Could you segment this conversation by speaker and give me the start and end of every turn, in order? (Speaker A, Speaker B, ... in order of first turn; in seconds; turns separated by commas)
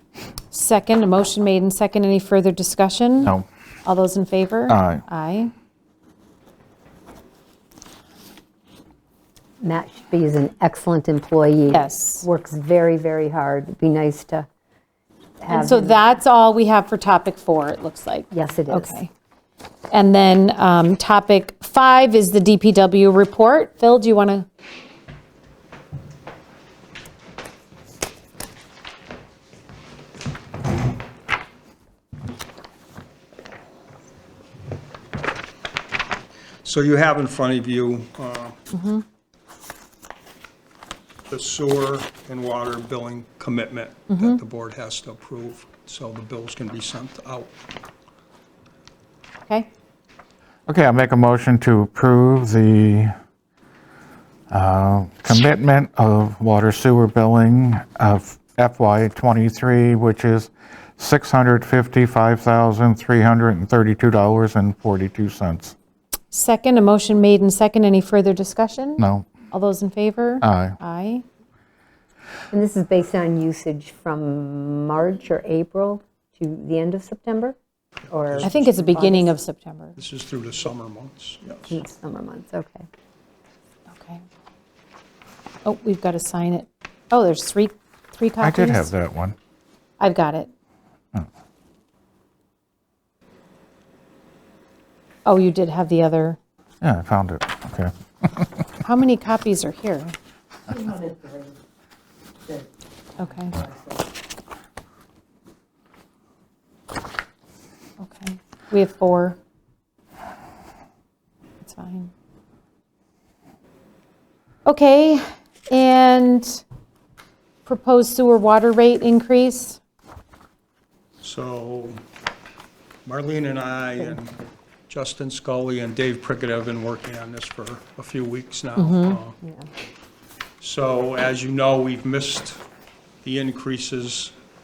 Speaker A: 0.5-3.3, Speaker A: 3.8-5.5, Speaker B: 4.7-5.0, Speaker C: 9.6-14.5, Speaker A: 11.7-12.2, Speaker C: 15.4-16.0, Speaker A: 15.5-19.1, Speaker C: 18.3-19.0, Speaker A: 19.9-24.4, Speaker D: 36.6-38.6, Speaker A: 38.7-39.0, Speaker D: 41.3-47.5, Speaker A: 44.1-44.4, Speaker B: 50.7-53.1, Speaker B: 54.5-65.7, Speaker A: 66.3-71.2, Speaker B: 69.0-69.3, Speaker B: 70.4-70.7, Speaker C: 72.5-77.5, Speaker C: 78.1-79.3, Speaker A: 78.4-80.0, Speaker D: 80.0-81.8, Speaker C: 81.7-82.9, Speaker A: 83.9-84.2, Speaker A: 85.6-88.9, Speaker B: 88.4-89.3, Speaker A: 90.0-90.5, Speaker A: 95.2-96.4, Speaker B: 96.8-98.4, Speaker A: 98.8-100.1, Speaker A: 103.2-103.6, Speaker A: 108.0-109.4, Speaker A: 111.6-112.1, Speaker A: 114.6-116.6, Speaker A: 117.7-119.8, Speaker D: 121.2-122.0, Speaker D: 123.0-129.4, Speaker A: 128.8-129.2, Speaker D: 130.6-132.6, Speaker D: 133.2-134.3